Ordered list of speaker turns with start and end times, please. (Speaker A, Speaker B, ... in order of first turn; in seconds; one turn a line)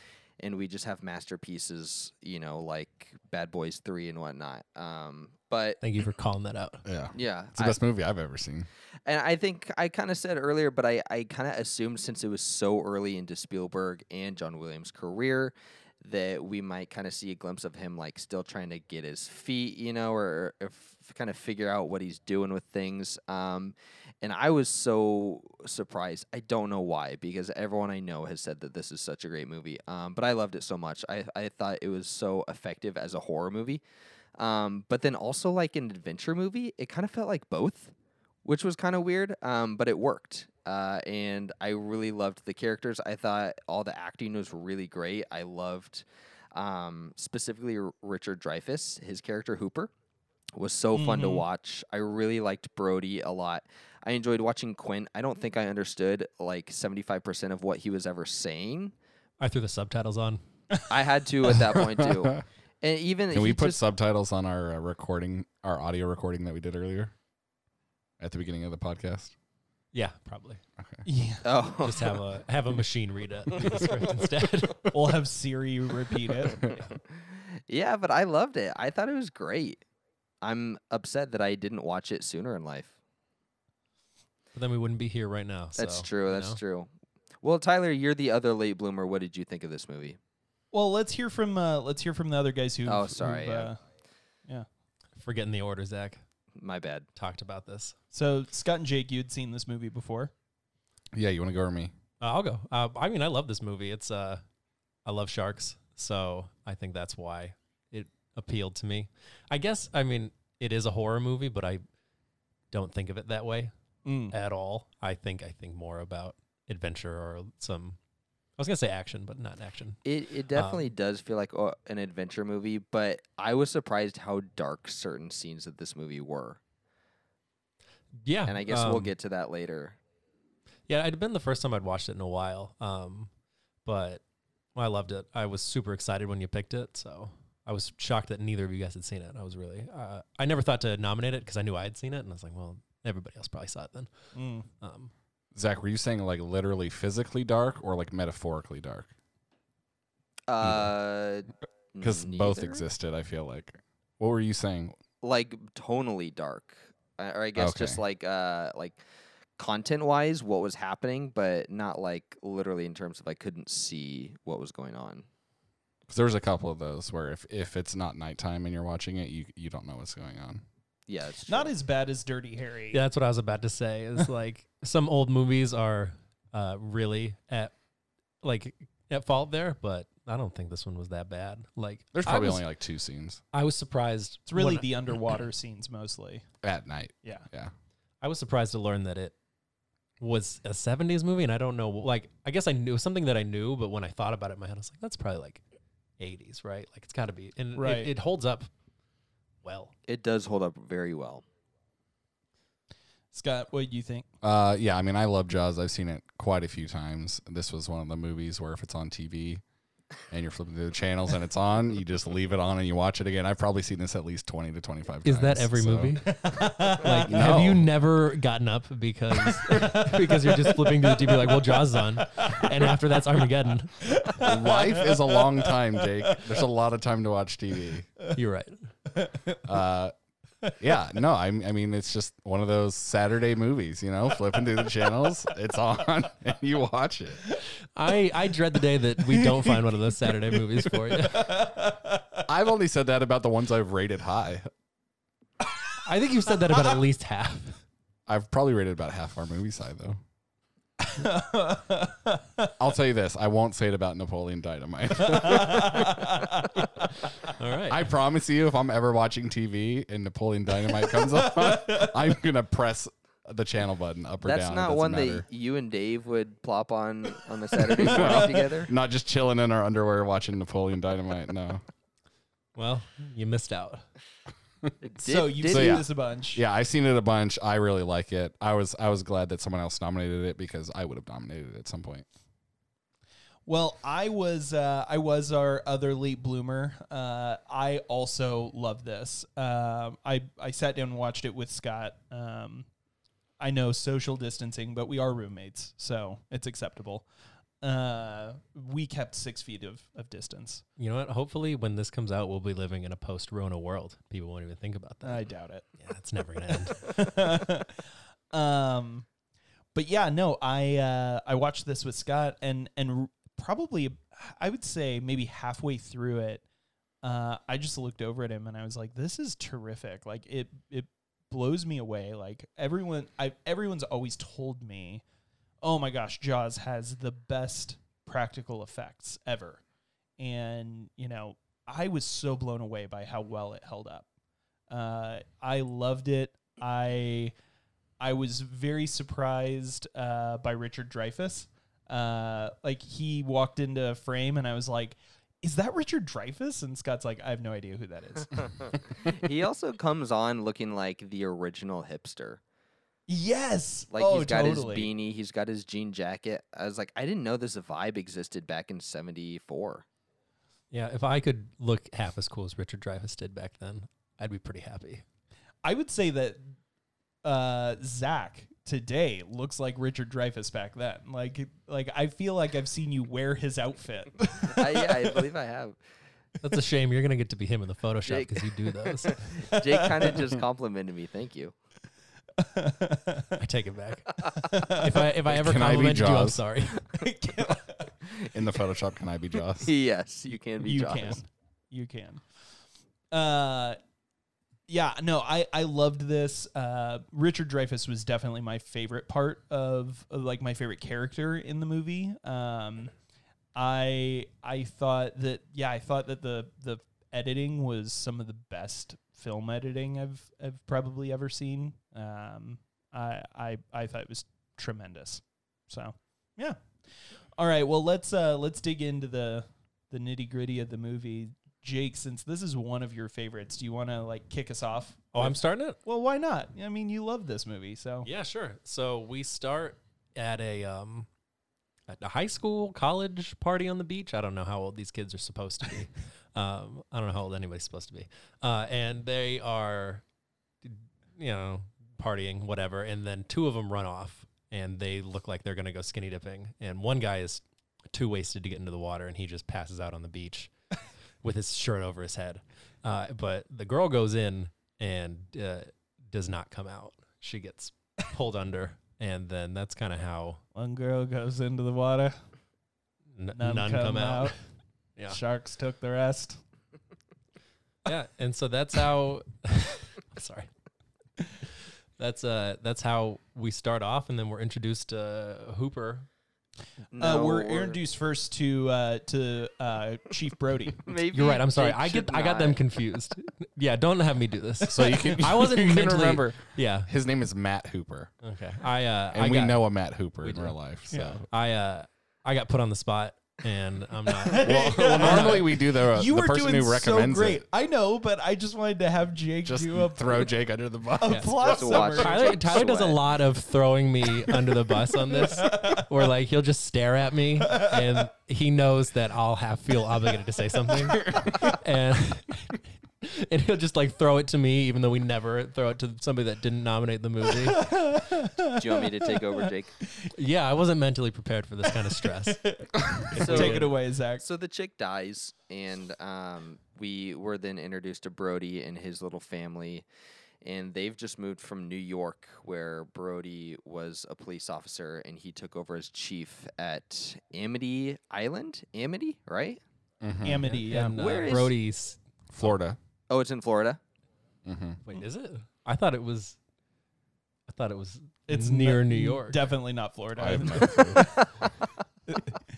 Speaker A: 0.4-5.8
Speaker B: 5.8-6.8
Speaker C: 6.8-8.7
Speaker A: 7.1-7.8
Speaker A: 9.1-33.8
Speaker A: 34.4-37.9
Speaker A: 38.4-49.9
Speaker A: 50.5-58.9
Speaker D: 50.9-51.4
Speaker B: 59.4-60.4
Speaker A: 60.9-63.8
Speaker C: 61.8-62.4
Speaker C: 63.3-67.1
Speaker C: 68.2-69.3
Speaker B: 69.9-70.6
Speaker C: 70.8-71.0
Speaker D: 71.0-71.6
Speaker A: 71.4-72.2
Speaker B: 71.8-74.9
Speaker D: 74.9-76.7
Speaker A: 77.1-79.8
Speaker A: 80.4-82.9
Speaker B: 84.5-86.6
Speaker A: 85.8-86.9
Speaker A: 87.4-90.2
Speaker D: 90.7-93.8
Speaker A: 92.8-93.7
Speaker B: 95.2-96.2
Speaker A: 96.6-97.1
Speaker B: 97.1-97.9
Speaker D: 98.1-100.3
Speaker C: 101.1-101.9
Speaker B: 102.2-104.4
Speaker B: 105.0-111.8
Speaker B: 112.7-113.7
Speaker D: 114.0-114.3
Speaker B: 114.3-118.0
Speaker B: 118.6-120.0
Speaker A: 120.0-126.6
Speaker B: 120.5-120.8
Speaker B: 128.2-129.1
Speaker A: 128.5-130.0
Speaker B: 130.9-133.3
Speaker B: 133.8-134.2
Speaker B: 134.8-144.1
Speaker D: 144.3-144.7
Speaker B: 144.8-145.1
Speaker C: 145.5-149.1
Speaker A: 150.5-152.8
Speaker C: 150.6-150.9
Speaker C: 152.0-154.9
Speaker A: 155.2-159.0
Speaker C: 157.6-158.0
Speaker A: 159.6-165.2
Speaker C: 166.1-170.6
Speaker A: 171.1-171.7
Speaker D: 171.5-173.0
Speaker B: 172.9-177.7
Speaker B: 178.4-182.7
Speaker C: 182.1-183.4
Speaker B: 183.5-184.9
Speaker D: 184.5-186.4
Speaker C: 186.6-187.7
Speaker B: 188.2-189.3
Speaker B: 190.2-195.6
Speaker B: 196.2-198.7
Speaker D: 197.8-198.1
Speaker B: 199.6-199.9
Speaker A: 200.1-201.4
Speaker D: 203.3-204.2
Speaker C: 204.4-209.6
Speaker C: 210.3-216.2
Speaker B: 215.2-224.1
Speaker D: 216.3-217.3
Speaker C: 217.3-217.9
Speaker D: 219.7-222.7
Speaker D: 224.0-226.4
Speaker C: 224.3-228.1
Speaker B: 228.3-228.9
Speaker D: 229.1-229.6
Speaker C: 229.6-230.1
Speaker C: 230.8-237.4
Speaker B: 237.9-241.5
Speaker D: 239.2-242.4
Speaker C: 242.5-244.7
Speaker B: 246.0-247.8
Speaker C: 248.3-250.2
Speaker D: 251.0-252.7
Speaker C: 252.8-256.4
Speaker D: 255.2-256.8
Speaker B: 257.5-258.1
Speaker C: 257.9-265.4
Speaker D: 261.1-262.2
Speaker A: 264.4-268.9
Speaker C: 267.9-271.8
Speaker D: 268.1-268.5
Speaker B: 272.8-274.0
Speaker A: 275.0-276.0
Speaker D: 275.2-276.6
Speaker C: 275.7-282.2
Speaker D: 283.7-292.9
Speaker D: 293.6-297.2
Speaker D: 297.8-300.8
Speaker B: 301.0-305.4
Speaker D: 305.2-305.9
Speaker B: 306.0-307.1
Speaker D: 306.7-309.2
Speaker D: 309.9-316.6
Speaker D: 317.2-325.2
Speaker D: 325.8-329.8
Speaker D: 330.4-334.2
Speaker D: 334.9-337.5
Speaker D: 338.2-348.9
Speaker A: 349.1-352.6
Speaker D: 353.3-355.1
Speaker A: 354.1-360.0
Speaker B: 360.9-365.2
Speaker D: 365.8-366.7
Speaker D: 367.4-375.3
Speaker A: 374.6-376.0
Speaker B: 376.6-379.6
Speaker A: 378.2-378.7
Speaker A: 379.2-381.7
Speaker D: 379.7-380.4
Speaker D: 382.6-383.6
Speaker B: 383.6-387.0
Speaker D: 384.6-385.1
Speaker C: 385.4-386.6
Speaker D: 387.1-388.1
Speaker C: 388.5-389.9
Speaker A: 389.8-391.4
Speaker D: 390.8-392.4
Speaker D: 393.3-394.0
Speaker D: 394.9-403.1
Speaker D: 403.7-428.3
Speaker B: 425.4-426.0
Speaker B: 428.2-431.3
Speaker B: 432.1-440.2
Speaker B: 440.8-450.7
Speaker B: 451.4-460.6
Speaker D: 460.7-462.4
Speaker B: 463.4-464.5
Speaker D: 463.6-464.5
Speaker D: 465.3-466.6
Speaker B: 468.1-470.7
Speaker B: 472.2-476.3
Speaker A: 477.1-478.0
Speaker D: 477.2-481.0
Speaker A: 481.0-482.8
Speaker B: 481.3-487.1
Speaker C: 484.9-488.3
Speaker B: 488.4-489.8
Speaker C: 489.3-491.4
Speaker B: 490.4-490.7
Speaker D: 491.1-491.4
Speaker B: 491.4-495.7
Speaker D: 494.4-500.5
Speaker C: 494.6-497.6
Speaker C: 499.6-502.1
Speaker D: 501.2-502.8
Speaker A: 501.6-503.2
Speaker B: 502.1-517.9
Speaker D: 505.3-506.1
Speaker D: 507.7-508.1
Speaker D: 517.6-519.5
Speaker A: 518.7-519.9
Speaker B: 520.3-522.6
Speaker D: 522.4-524.4
Speaker B: 523.3-523.9
Speaker A: 523.4-530.1
Speaker A: 530.6-539.8
Speaker C: 540.2-540.7
Speaker D: 540.4-541.5
Speaker B: 540.6-542.7
Speaker A: 541.0-541.7
Speaker C: 542.5-543.0
Speaker A: 543.3-544.0
Speaker C: 544.6-545.0
Speaker B: 545.0-546.6
Speaker B: 547.7-549.6
Speaker D: 548.5-551.7
Speaker C: 550.4-551.3
Speaker D: 552.3-552.6